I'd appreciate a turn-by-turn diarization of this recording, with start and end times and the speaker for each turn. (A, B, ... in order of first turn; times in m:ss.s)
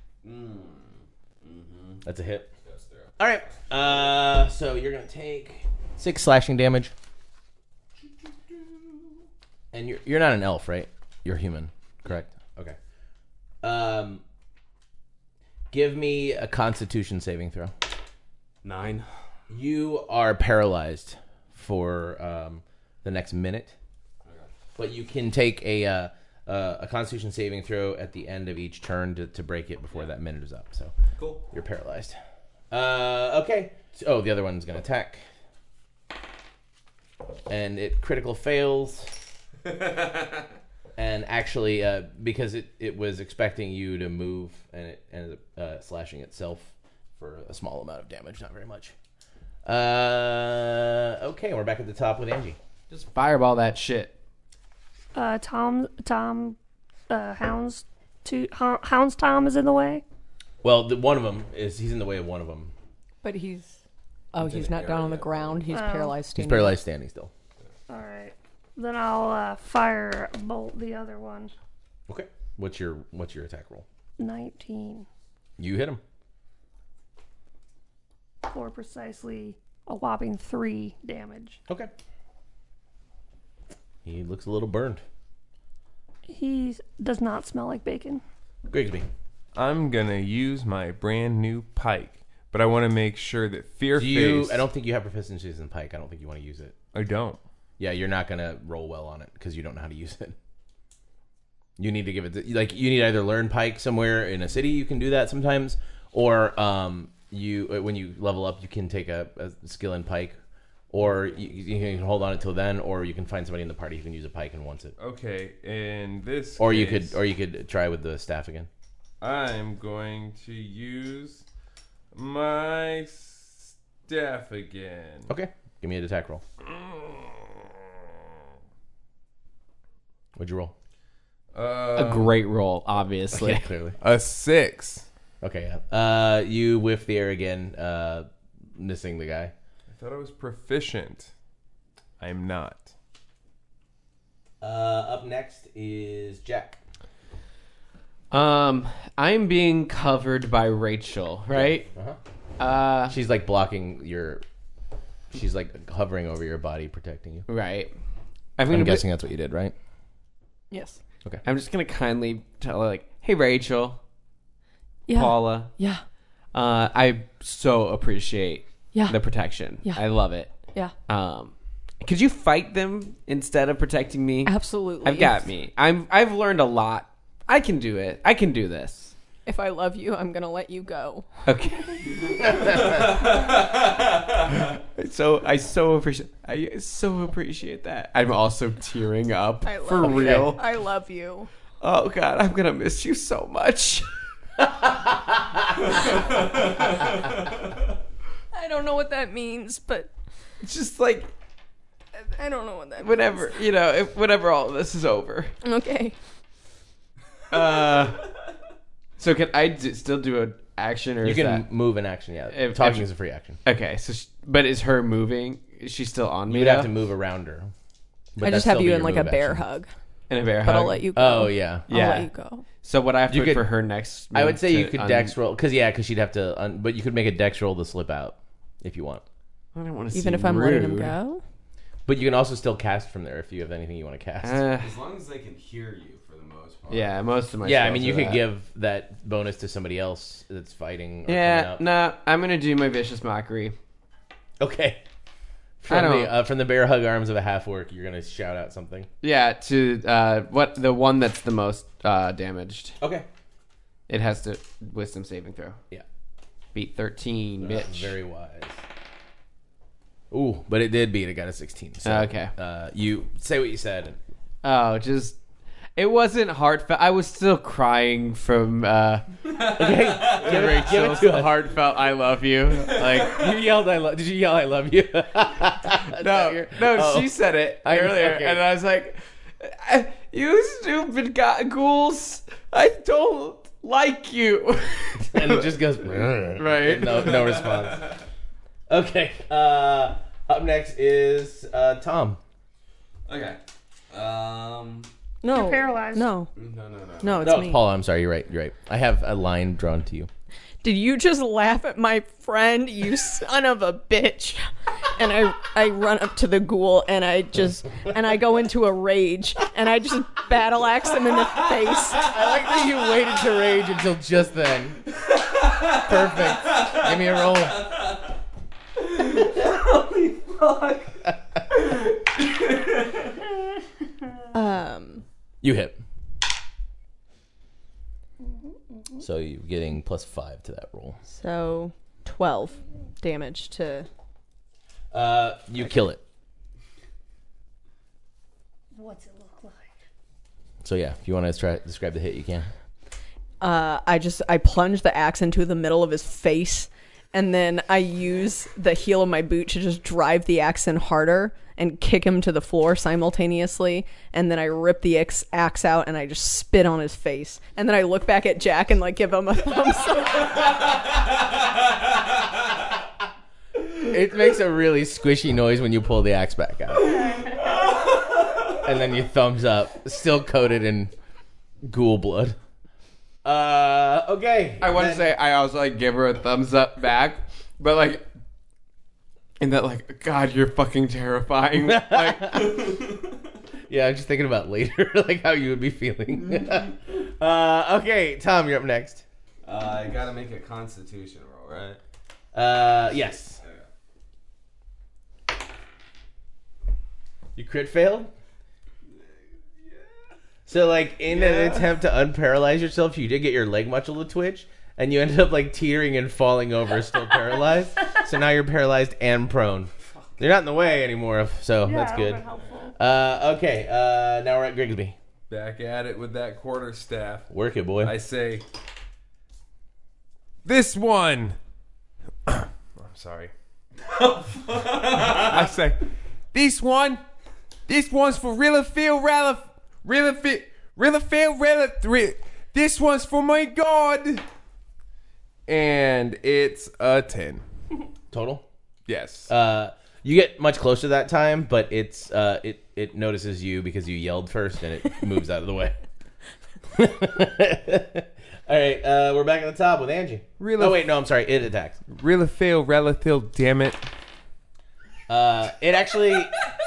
0:00.2-0:02.0 A
0:02.0-0:02.5 B
0:02.6-0:03.1 A
0:03.2-0:06.9 B
0:09.7-0:12.8 B
0:13.6-0:14.2 B
0:15.7-0:17.7 B
0:18.6-0:19.1 A
0:19.5-0:23.8 B
0:24.2-0:24.5 A
0:24.8-0:30.9 B
0:31.2-0:31.4 A
0:31.5-0:32.2 B
0:32.7-0:35.2 B
0:37.5-0:39.2 B
0:39.7-0:40.4 A
0:41.0-0:48.9 B
0:49.6-0:52.6 B
0:52.9-0:54.2 C
0:55.1-0:56.6 D
0:57.1-1:00.0 D
1:00.6-1:02.7 B
1:03.2-1:03.8 E
1:04.3-1:06.8 E
1:04.4-1:05.7 A
1:05.7-1:06.2 D
1:06.4-1:07.3 B
1:07.9-1:11.5 D
1:12.1-1:13.8 B
1:14.2-1:15.1 D
1:15.6-1:16.0 B
1:18.5-1:21.6 D
1:24.0-1:25.0 B
1:26.3-1:28.2 D
1:28.7-1:29.1 B
1:29.6-1:34.7 F
1:33.9-1:36.8 B
1:36.9-1:37.4 F
1:37.8-1:40.4 B
1:41.8-1:50.4 B
1:50.9-1:55.0 B
1:55.0-1:57.2 F
1:56.6-1:58.7 B
1:59.2-2:01.4 F
2:02.1-2:05.3 F
2:05.3-2:06.4 B
2:06.7-2:07.6 F
2:10.4-2:10.7 B
2:11.5-2:12.4 F
2:11.9-2:13.7 C
2:13.3-2:14.0 B
2:14.0-2:15.1 F
2:15.4-2:19.5 B
2:19.9-2:21.3 F
2:22.2-2:22.9 F
2:24.6-2:26.8 B
2:28.3-2:31.9 C
2:31.5-2:32.2 B
2:32.6-2:33.2 C
2:33.1-2:34.4 B
2:35.3-2:37.5 B
2:37.5-2:37.9 C
2:38.6-2:39.0 C
2:38.7-2:39.8 B
2:40.7-2:41.0 E
2:41.4-2:44.0 C
2:45.1-2:46.0 E
2:45.1-2:45.7 C
2:46.5-2:50.5 C
2:48.9-2:49.2 E
2:51.1-2:59.1 C
2:54.4-2:55.4 E
2:59.5-3:01.9 E
3:01.5-3:02.5 C
3:02.3-3:03.6 A
3:04.6-3:10.6 C
3:09.6-3:11.5 E
3:10.1-3:10.4 B
3:11.8-3:14.1 C
3:14.8-3:15.4 B
3:18.5-3:20.1 E
3:20.6-3:21.3 C
3:22.2-3:23.7 E
3:23.0-3:25.5 C
3:25.6-3:26.2 E
3:27.5-3:28.3 C
3:29.2-3:31.7 C
3:31.2-3:33.6 B
3:32.5-3:33.1 C
3:33.6-3:36.9 C
3:36.5-3:37.7 B
3:38.4-3:39.6 B
3:38.4-3:39.9 E
3:40.3-3:41.1 C
3:40.6-3:42.7 E
3:41.1-3:41.9 B
3:41.9-3:45.3 C
3:43.3-3:43.7 B
3:44.3-3:49.2 B
3:49.8-3:51.2 C
3:50.1-3:51.4 E
3:52.1-3:54.6 B
3:54.4-3:54.9 C
3:54.8-3:57.2 A
3:56.9-3:58.4 C
3:57.6-4:01.8 B
4:01.3-4:03.8 C
4:04.6-4:05.0 B
4:05.8-4:09.1 B
4:05.9-4:06.4 C
4:09.2-4:13.0 C
4:13.0-4:13.3 B
4:14.1-4:15.8 C
4:16.8-4:18.1 C
4:17.6-4:18.8 B
4:20.3-4:24.2 B
4:22.0-4:22.5 C
4:24.6-4:25.4 C
4:26.0-4:29.3 C
4:29.6-4:31.7 B
4:29.9-4:33.5 C
4:32.9-4:38.6 B
4:36.1-4:45.7 C
4:45.2-4:48.2 B
4:46.6-4:47.4 C
4:47.3-4:48.2 A
4:48.9-4:52.4 B
4:53.3-4:55.1 A
4:55.4-4:56.5 E
4:55.5-4:56.3 D
4:56.6-4:57.6 A
4:57.2-4:57.8 E
4:57.4-5:00.3 B
5:00.8-5:12.4 E
5:12.2-5:15.0 B
5:15.9-5:17.9 B
5:19.0-5:21.2 A
5:22.4-5:23.1 A
5:24.5-5:25.2 E
5:25.6-5:26.0 B
5:28.4-5:29.0 D
5:29.2-5:31.2 B
5:31.3-5:34.1 E
5:35.1-5:36.2 B
5:38.9-5:39.9 D
5:40.8-5:42.7 B
5:43.6-6:00.7 E
6:04.0-6:07.4 B
6:08.7-6:11.1 B
6:11.8-6:12.6 B
6:13.4-6:15.3 B
6:14.8-6:18.3 C
6:19.6-6:22.5 C
6:21.8-6:22.8 B
6:22.7-6:23.2 A
6:23.9-6:29.2 B
6:29.6-6:32.0 A
6:32.5-6:33.6 B
6:37.6-6:38.3 B
6:40.7-6:52.4 B
6:41.3-6:41.9 A
6:51.8-6:53.0 D
6:53.0-6:55.2 B
6:55.5-6:57.5 F
6:57.5-6:58.2 B
6:58.0-6:58.6 F
7:00.6-7:01.6 F
7:02.5-7:03.5 F
7:04.1-7:05.7 A
7:05.2-7:07.2 F
7:07.9-7:14.4 F
7:15.7-7:17.6 F
7:18.3-7:18.7 B
7:19.1-7:19.5 F
7:19.5-7:26.0 B
7:26.9-7:32.0 B
7:30.6-7:31.0 F
7:32.1-7:34.0 F
7:35.3-7:36.6 B